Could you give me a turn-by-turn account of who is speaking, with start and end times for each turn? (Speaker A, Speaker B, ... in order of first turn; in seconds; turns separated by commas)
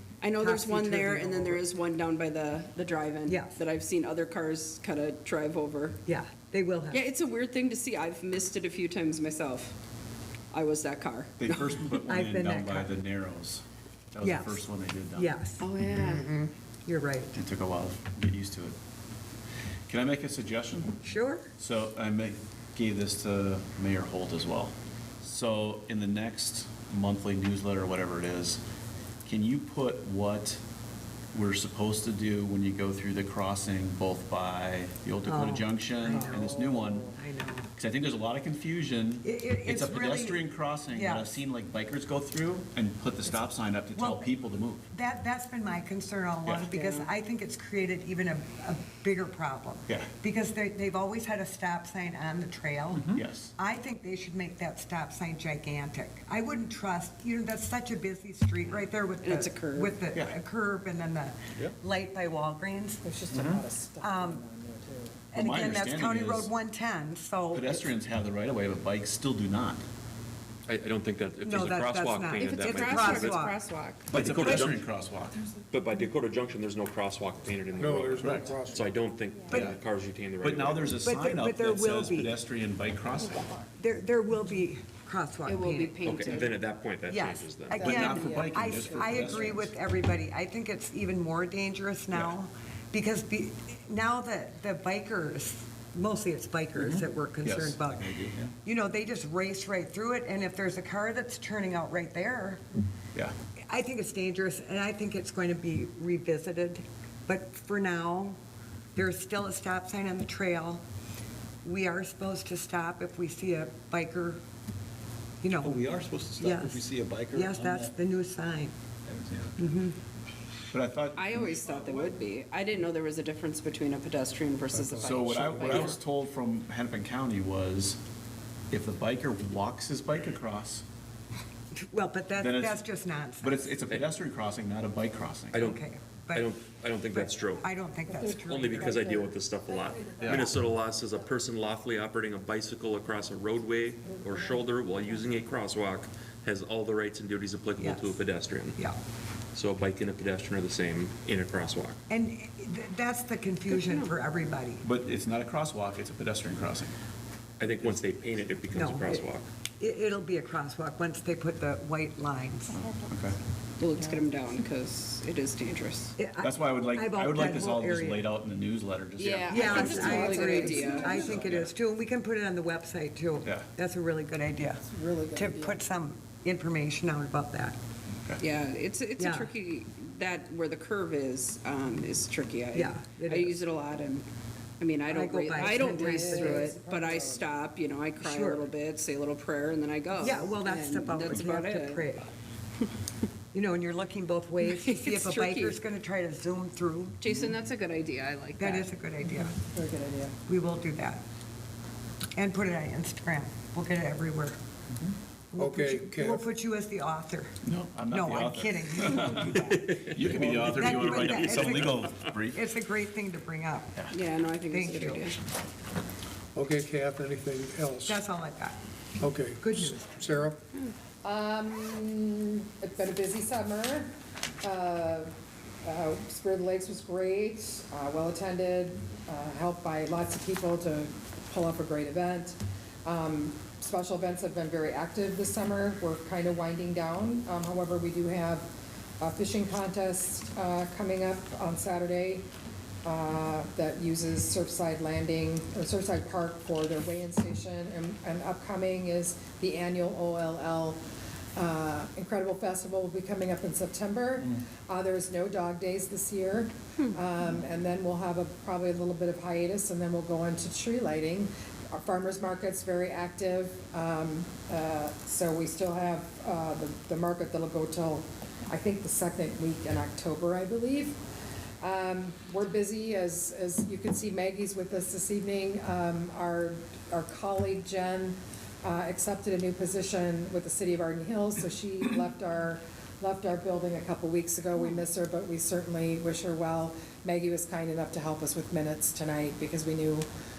Speaker A: 0.2-6.0, Speaker B: 0.4-1.6, Speaker B: 3.2-3.6, Speaker B: 6.0-7.0, Speaker A: 6.9-9.7, Speaker A: 10.5-11.8, Speaker C: 11.4-15.3, Speaker B: 12.0-12.9, Speaker B: 14.2-15.7, Speaker A: 15.6-16.3, Speaker D: 16.0-16.2, Speaker B: 16.9-17.4, Speaker C: 17.3-18.8, Speaker C: 19.9-21.0, Speaker B: 21.0-21.5, Speaker C: 21.6-28.6, Speaker C: 29.3-30.6, Speaker C: 31.3-37.1, Speaker B: 35.2-37.7, Speaker C: 37.8-44.8, Speaker B: 39.2-41.3, Speaker B: 43.9-44.3, Speaker B: 44.9-63.0, Speaker C: 46.5-46.7, Speaker C: 53.1-53.5, Speaker A: 59.2-60.0, Speaker D: 63.0-65.2, Speaker C: 63.3-63.6, Speaker B: 64.0-64.4, Speaker B: 65.3-67.9, Speaker C: 65.3-66.5, Speaker C: 67.5-69.8, Speaker E: 70.7-73.4, Speaker B: 71.4-73.6, Speaker A: 72.4-74.1, Speaker E: 74.1-74.9, Speaker C: 74.1-75.4, Speaker E: 75.7-81.0, Speaker F: 77.8-78.9, Speaker C: 78.2-78.5, Speaker B: 79.5-79.8, Speaker C: 80.4-83.5, Speaker B: 81.0-82.3, Speaker B: 83.8-86.5, Speaker A: 85.5-86.5, Speaker E: 86.0-87.9, Speaker B: 87.1-98.1, Speaker D: 87.7-89.5, Speaker C: 87.8-89.7, Speaker C: 96.8-98.5, Speaker B: 98.6-102.6, Speaker B: 103.7-108.4, Speaker B: 108.9-110.8, Speaker B: 111.6-114.4, Speaker B: 115.4-115.9, Speaker C: 115.6-117.9, Speaker B: 116.4-118.7, Speaker C: 119.1-119.5, Speaker B: 119.6-120.0, Speaker C: 120.7-121.6, Speaker A: 121.2-126.0, Speaker F: 124.8-125.9, Speaker C: 124.9-128.0, Speaker C: 128.7-130.8, Speaker B: 131.8-133.8, Speaker C: 132.4-132.8, Speaker C: 133.4-135.6, Speaker E: 135.5-135.8, Speaker B: 135.6-136.5, Speaker E: 136.3-137.7, Speaker B: 137.1-139.2, Speaker D: 138.1-140.5, Speaker E: 138.4-148.8, Speaker C: 140.2-140.5, Speaker D: 144.0-145.2, Speaker B: 147.8-148.2, Speaker E: 149.5-152.0, Speaker B: 152.1-154.8, Speaker A: 153.7-154.1, Speaker C: 154.8-156.9, Speaker E: 157.6-159.5, Speaker B: 158.7-159.2, Speaker B: 159.8-162.8, Speaker C: 162.7-163.4, Speaker A: 163.8-166.1, Speaker B: 166.2-168.2, Speaker C: 166.4-170.3, Speaker A: 169.2-171.3, Speaker D: 169.5-171.5, Speaker B: 169.5-177.8, Speaker C: 171.2-171.7, Speaker D: 174.8-175.8, Speaker A: 178.4-184.2, Speaker B: 179.2-179.5, Speaker B: 182.7-183.6, Speaker A: 184.8-192.0, Speaker B: 185.1-186.7, Speaker D: 185.6-187.5, Speaker B: 188.2-188.6, Speaker B: 190.2-192.3, Speaker B: 193.5-197.2, Speaker A: 194.6-195.8, Speaker A: 197.2-198.9, Speaker B: 198.6-199.5, Speaker D: 199.4-200.3, Speaker B: 200.5-201.2, Speaker B: 202.3-204.6, Speaker B: 205.5-207.5, Speaker F: 205.6-206.4, Speaker C: 207.6-212.6, Speaker B: 208.1-209.9, Speaker E: 209.7-210.2, Speaker B: 210.4-214.0, Speaker A: 214.1-215.4, Speaker B: 214.7-215.3, Speaker F: 216.6-218.2, Speaker B: 218.0-218.8, Speaker F: 219.2-220.6, Speaker B: 219.6-220.1, Speaker D: 221.2-225.3, Speaker D: 225.8-238.7, Speaker D: 239.2-242.5, Speaker D: 243.0-251.0, Speaker D: 251.6-271.2, Speaker D: 271.8-290.3